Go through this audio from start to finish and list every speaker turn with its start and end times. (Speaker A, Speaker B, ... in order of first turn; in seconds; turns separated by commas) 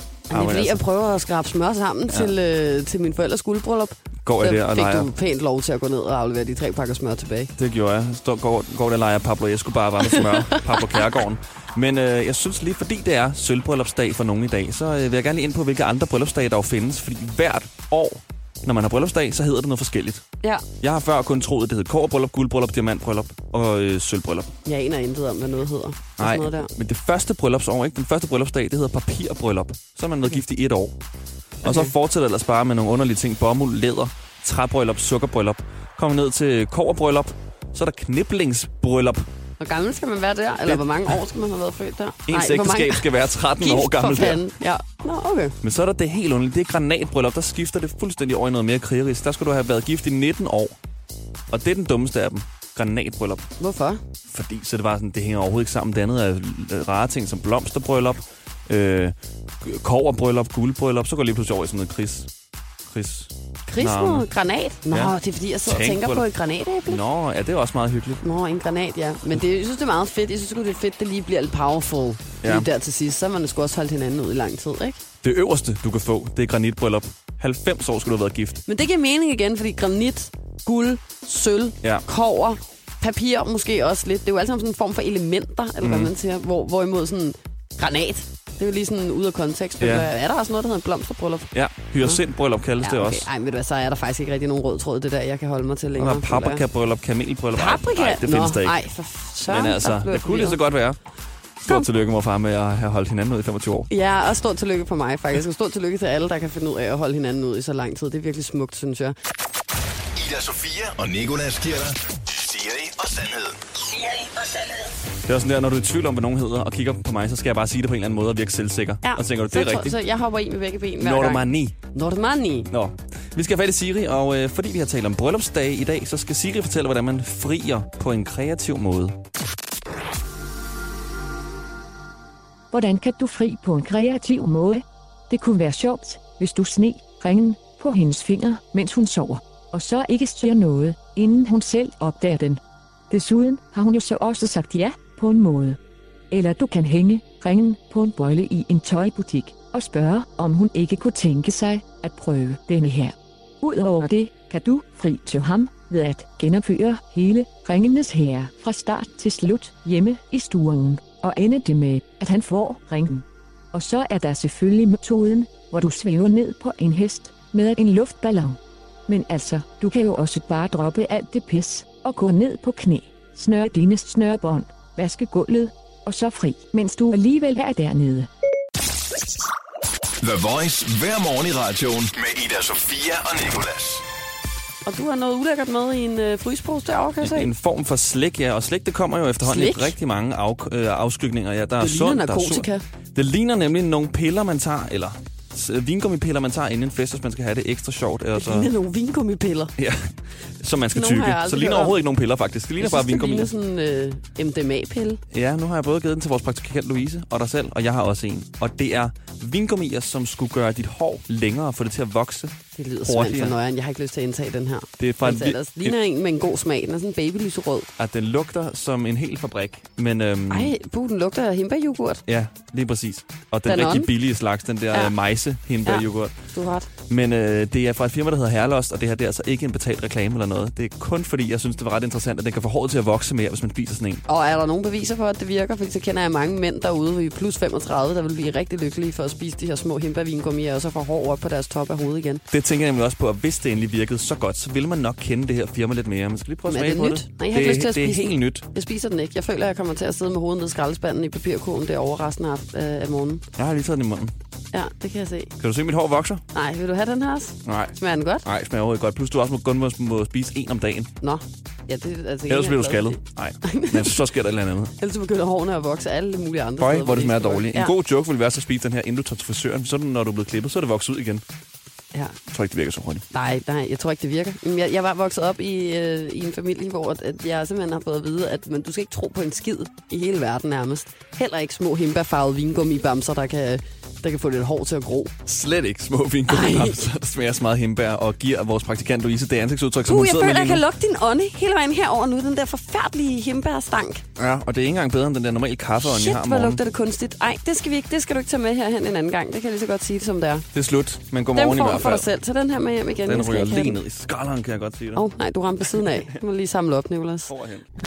Speaker A: 0.3-7.5, Speaker B: 0.3-0.8, Speaker B: 4.2-5.1, Speaker B: 7.5-20.2, Speaker A: 10.1-10.9, Speaker B: 20.8-24.5, Speaker A: 24.6-26.7, Speaker B: 26.2-30.9, Speaker B: 31.6-39.2, Speaker A: 31.6-31.9, Speaker A: 39.6-45.5, Speaker B: 42.3-44.4, Speaker B: 45.6-50.8, Speaker B: 51.5-53.4, Speaker A: 53.6-54.0, Speaker B: 54.3-62.3, Speaker B: 62.9-64.3, Speaker A: 63.7-67.0, Speaker B: 64.9-66.2, Speaker B: 66.8-68.2, Speaker A: 68.2-75.0, Speaker B: 75.2-78.6, Speaker A: 78.7-92.2, Speaker B: 85.8-86.1, Speaker B: 89.8-90.1, Speaker B: 91.5-93.3, Speaker A: 92.8-96.6, Speaker B: 96.0-98.8, Speaker A: 97.5-100.6, Speaker B: 99.5-101.0, Speaker B: 101.6-103.9, Speaker A: 103.9-109.1, Speaker C: 110.2-113.6, Speaker B: 115.2-120.0, Speaker A: 119.0-122.7, Speaker B: 121.0-121.8, Speaker B: 122.7-129.2, Speaker D: 132.7-145.8, Speaker D: 146.3-178.3, Speaker C: 180.2-184.0, Speaker A: 184.8-187.5, Speaker B: 187.2-198.7, Speaker A: 189.4-189.9, Speaker A: 191.8-192.8, Speaker A: 198.3-199.7, Speaker B: 199.8-203.5, Speaker A: 200.9-202.0, Speaker A: 202.8-205.2, Speaker B: 205.3-212.5, Speaker A: 212.8-217.9, Speaker B: 213.1-213.5, Speaker B: 215.0-215.9, Speaker B: 218.0-220.7, Speaker A: 220.5-222.2, Speaker B: 222.3-226.3, Speaker A: 223.6-224.1, Speaker A: 225.8-226.9, Speaker B: 227.1-234.2, Speaker A: 234.3-242.4, Speaker B: 242.5-248.7, Speaker A: 246.7-253.4, Speaker B: 253.6-254.3, Speaker A: 254.7-255.5, Speaker B: 255.6-256.4, Speaker A: 256.5-258.4, Speaker B: 257.6-261.1, Speaker A: 261.2-264.2, Speaker B: 262.5-264.9, Speaker A: 265.0-267.9, Speaker B: 266.8-271.4, Speaker B: 272.5-273.2, Speaker A: 273.3-285.3, Speaker B: 285.4-290.8, Speaker A: 286.4-287.0, Speaker A: 290.1-294.2, Speaker B: 294.4-296.8, Speaker A: 296.0-300.6, Speaker B: 300.7-302.2, Speaker A: 301.5-304.0, Speaker B: 303.2-305.2, Speaker A: 305.1-307.5, Speaker B: 306.0-306.4, Speaker B: 307.5-307.8